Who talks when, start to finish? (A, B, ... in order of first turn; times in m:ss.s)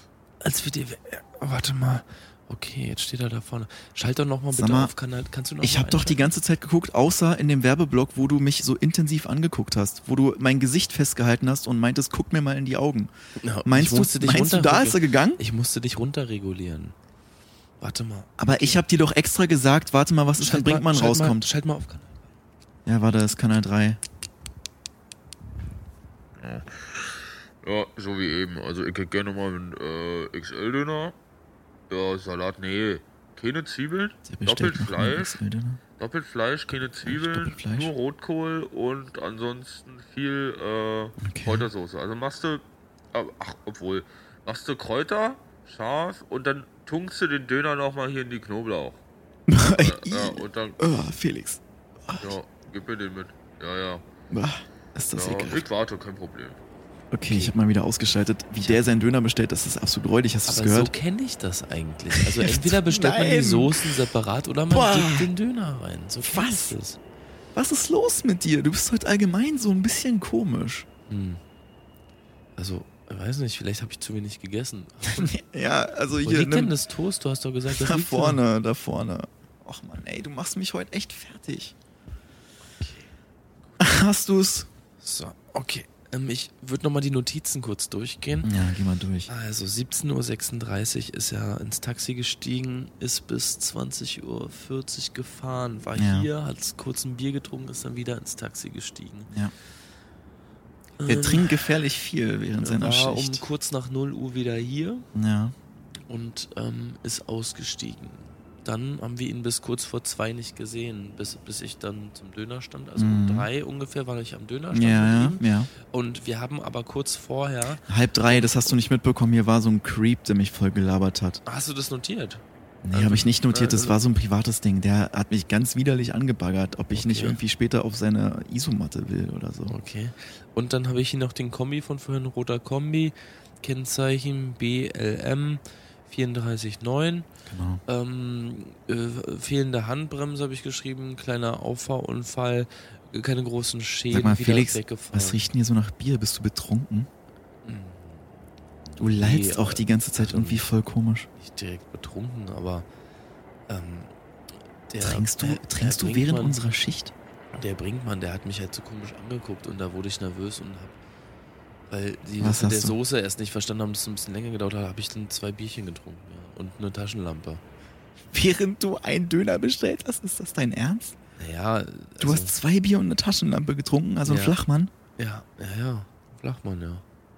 0:00.4-0:06.3 A
0:04.5-0:04.9 B
0:05.6-0:13.1 B
0:13.4-0:17.0 A
0:13.6-0:15.4 B
0:17.8-0:18.8 A
0:18.4-0:21.5 B
0:20.4-0:22.2 A
0:22.9-0:24.0 B
0:26.4-0:31.2 C
0:31.9-0:35.4 C
0:34.3-0:35.8 B
0:36.0-0:49.0 C
0:37.0-0:37.9 B
0:41.2-0:41.7 B
0:49.5-0:52.4 B
0:49.6-0:50.8 C
0:52.2-0:54.0 C
0:54.3-0:55.7 B
0:55.1-0:56.6 C
0:57.1-1:00.9 B
0:57.3-0:57.5 A
1:00.5-1:07.0 A
1:02.1-1:04.0 B
1:04.7-1:05.3 B
1:06.2-1:06.8 B
1:07.6-1:10.9 B
1:11.1-1:11.4 A
1:12.6-1:15.3 A
1:15.2-1:16.8 B
1:16.2-1:18.4 A
1:17.7-1:21.8 B
1:22.8-1:23.1 A
1:23.8-1:24.7 B
1:25.0-1:28.6 A
1:28.4-1:29.3 B
1:29.3-1:39.3 A
1:36.0-1:36.3 B
1:41.0-1:41.5 A
1:41.1-1:43.4 B
1:42.6-1:45.1 A
1:45.2-1:45.6 B
1:46.1-1:58.8 A
1:53.0-1:53.5 B
1:54.7-1:55.7 B
1:57.9-2:01.4 B
2:01.5-2:04.0 A
2:02.8-2:09.8 B
2:06.9-2:07.4 A
2:09.7-2:17.3 A
2:17.5-2:17.8 B
2:17.9-2:25.4 A
2:24.1-2:27.1 B
2:27.6-2:28.3 A
2:28.9-2:30.7 A
2:29.0-2:31.3 B
2:31.4-2:32.9 A
2:33.7-2:34.1 A
2:34.9-2:36.6 A
2:35.0-2:37.1 B
2:37.5-2:41.0 A
2:41.9-2:47.6 A
2:42.4-2:43.0 B
2:48.3-2:51.2 B
2:51.4-2:52.5 A
2:52.2-2:54.9 B
2:54.2-2:54.6 A
2:55.2-2:57.0 A